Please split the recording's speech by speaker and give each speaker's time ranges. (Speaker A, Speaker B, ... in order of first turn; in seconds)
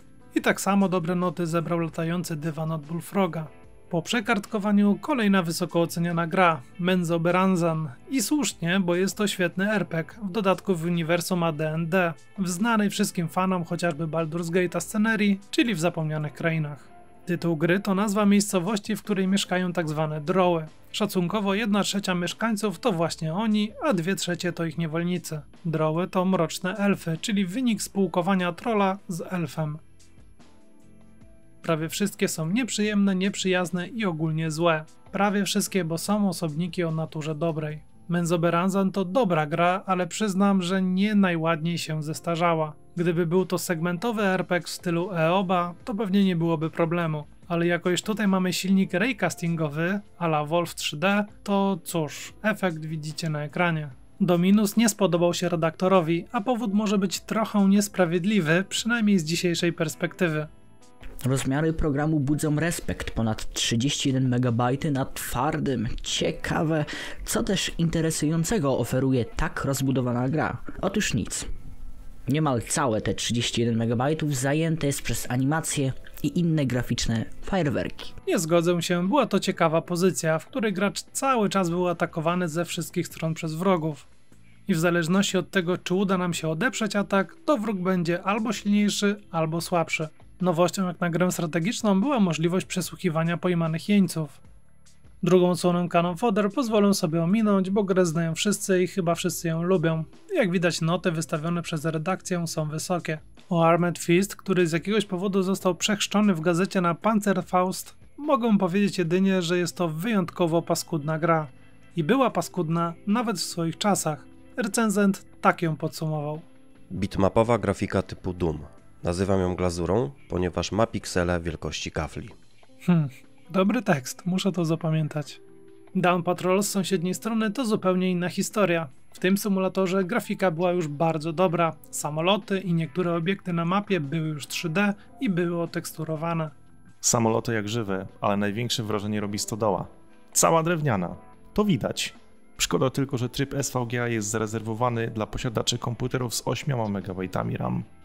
Speaker A: 0.3-29.8, 31.6-60.5, 78.2-84.0, 84.7-94.4, 95.2-116.5, 122.8-125.4, 125.9-136.5
Speaker B: 61.2-71.5, 72.3-78.1
Speaker C: 116.9-122.3
Speaker D: 137.0-147.9